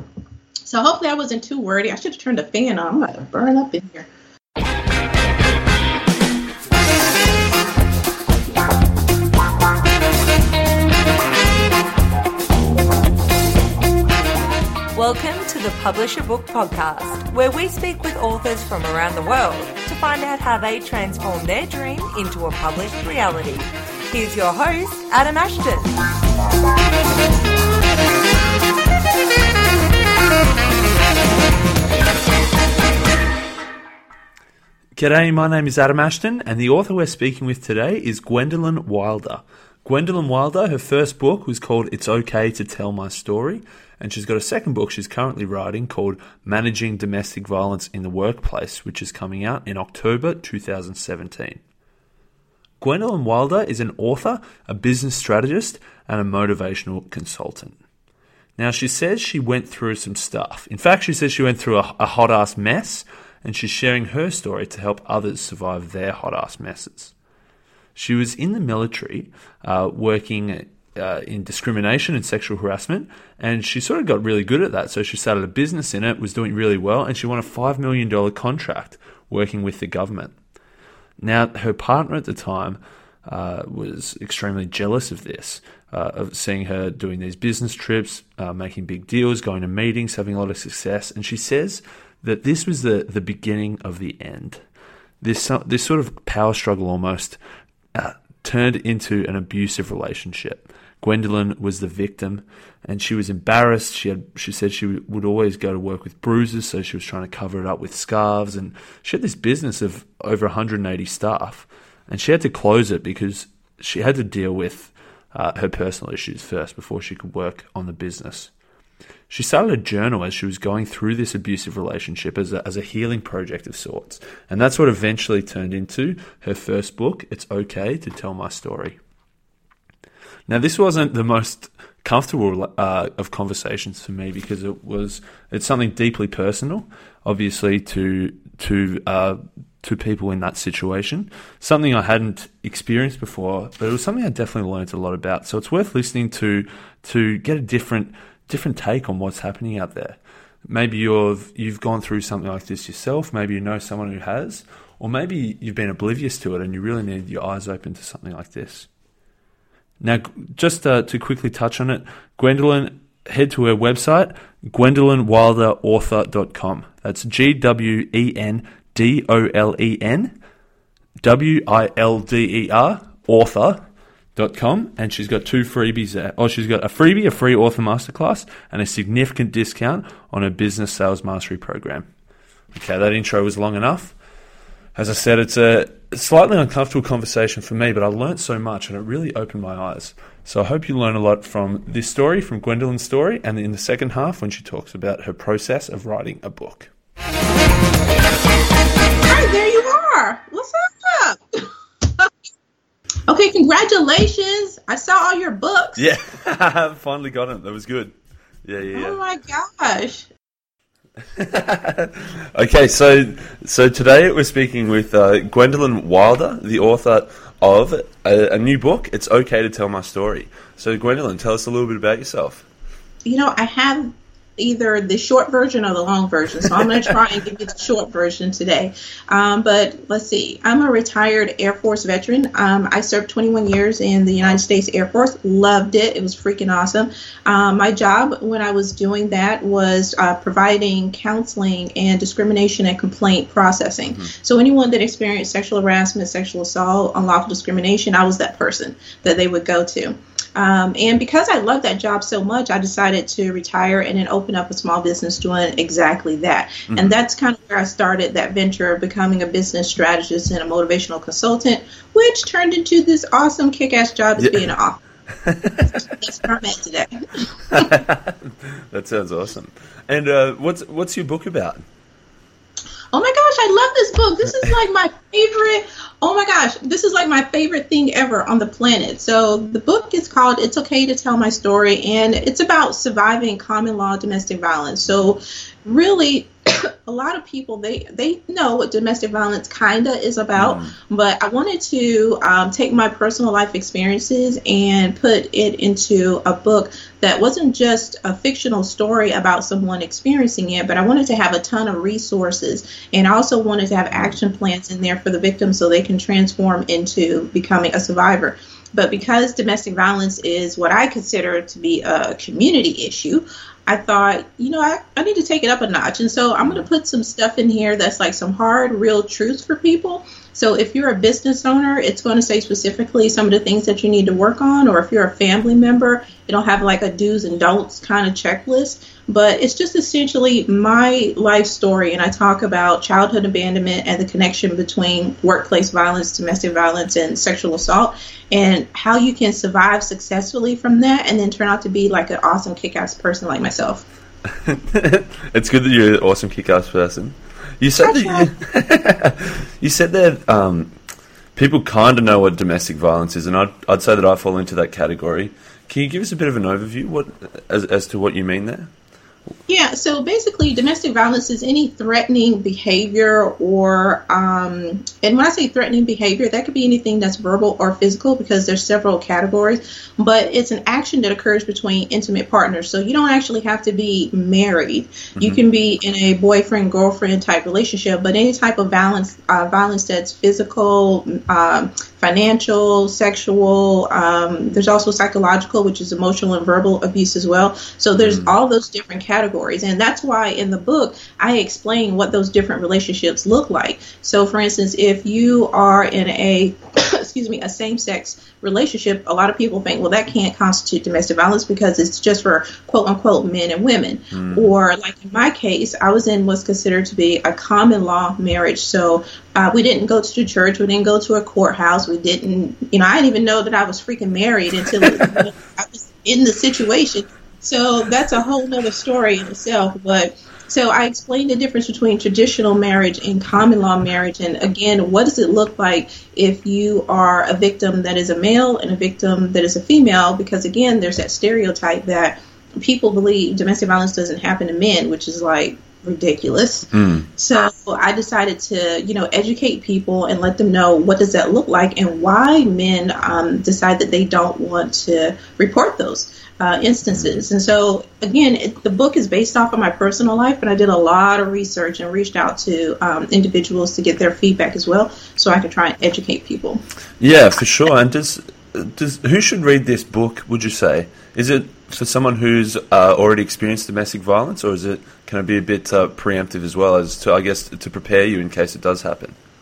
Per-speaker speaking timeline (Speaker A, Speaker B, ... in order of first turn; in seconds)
Speaker A: 0.7-4.1, 199.2-201.7, 203.3-206.1, 208.9-210.3, 223.2-265.0, 265.8-267.9, 273.1-344.0, 348.0-348.5, 359.7-456.8
Speaker B: 15.0-26.0
Speaker C: 35.0-51.6, 52.8-57.8, 58.6-67.1, 68.0-80.3, 81.2-94.6, 95.2-97.4, 97.9-118.5, 119.3-129.0, 130.5-158.9, 160.0-170.3, 171.2-173.8, 174.4-182.1, 182.7-184.2, 185.0-196.9, 206.0-209.2, 211.2-222.7, 256.9-257.1, 264.4-264.7, 265.3-266.0, 267.7-271.8, 290.6-290.9, 344.5-350.9, 351.5-358.9, 388.2-388.5, 404.3-404.7, 415.0-415.4, 436.9-437.3, 447.1-447.4, 457.2-469.3